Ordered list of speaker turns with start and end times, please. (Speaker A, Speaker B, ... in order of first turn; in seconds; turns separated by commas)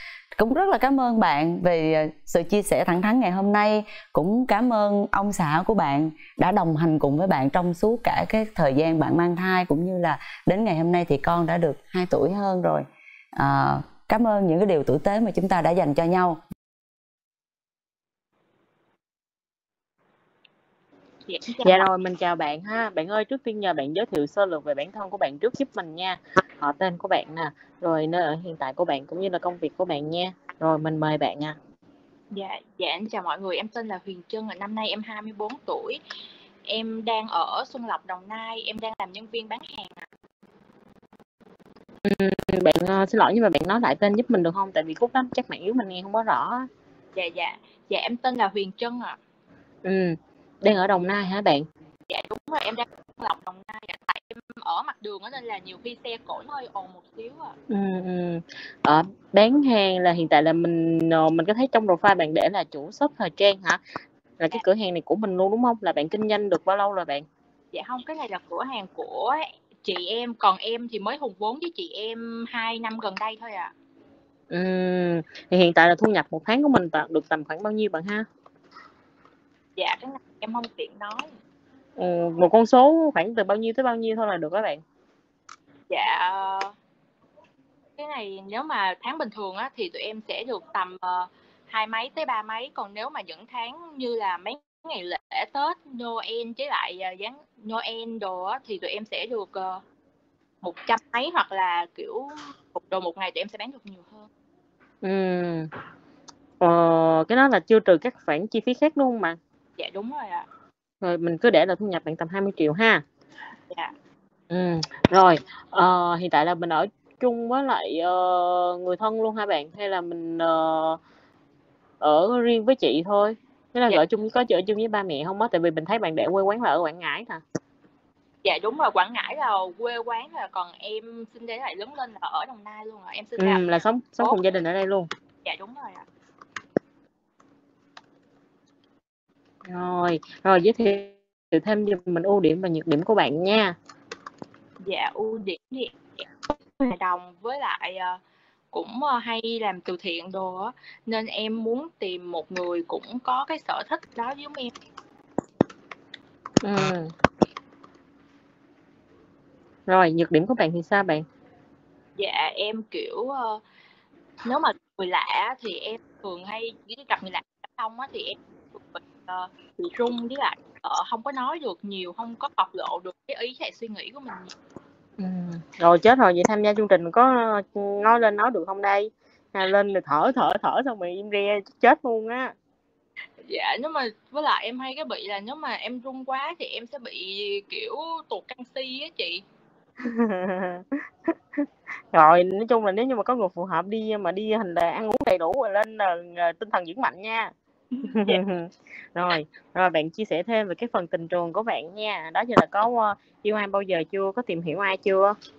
Speaker A: 0.4-16.4, Speaker B: 21.3-21.9, Speaker C: 21.6-31.6, Speaker B: 32.3-36.0, Speaker B: 36.7-40.1, Speaker C: 42.0-46.7, Speaker B: 47.1-49.2, Speaker C: 49.8-51.7, Speaker B: 52.1-57.5, Speaker C: 57.7-63.8, Speaker C: 64.4-67.3, Speaker B: 67.7-73.7, Speaker C: 74.5-78.3, Speaker B: 79.8-81.3, Speaker C: 82.0-84.8, Speaker B: 85.9-86.7, Speaker B: 88.0-99.8, Speaker B: 100.6-104.3, Speaker C: 105.0-105.7, Speaker C: 106.6-109.4, Speaker B: 109.8-110.5, Speaker C: 111.0-113.0, Speaker C: 114.5-121.0, Speaker C: 122.0-127.4, Speaker B: 128.4-134.4, Speaker C: 133.4-135.1, Speaker B: 135.4-136.1, Speaker C: 139.7-143.8, Speaker B: 144.8-148.2, Speaker B: 148.7-154.7, Speaker C: 156.6-157.1, Speaker C: 159.9-161.2, Speaker B: 162.2-163.6, Speaker B: 164.4-174.5, Speaker C: 175.2-182.5, Speaker B: 183.4-189.4, Speaker C: 190.0-197.5, Speaker B: 197.9-198.4, Speaker C: 198.1-205.3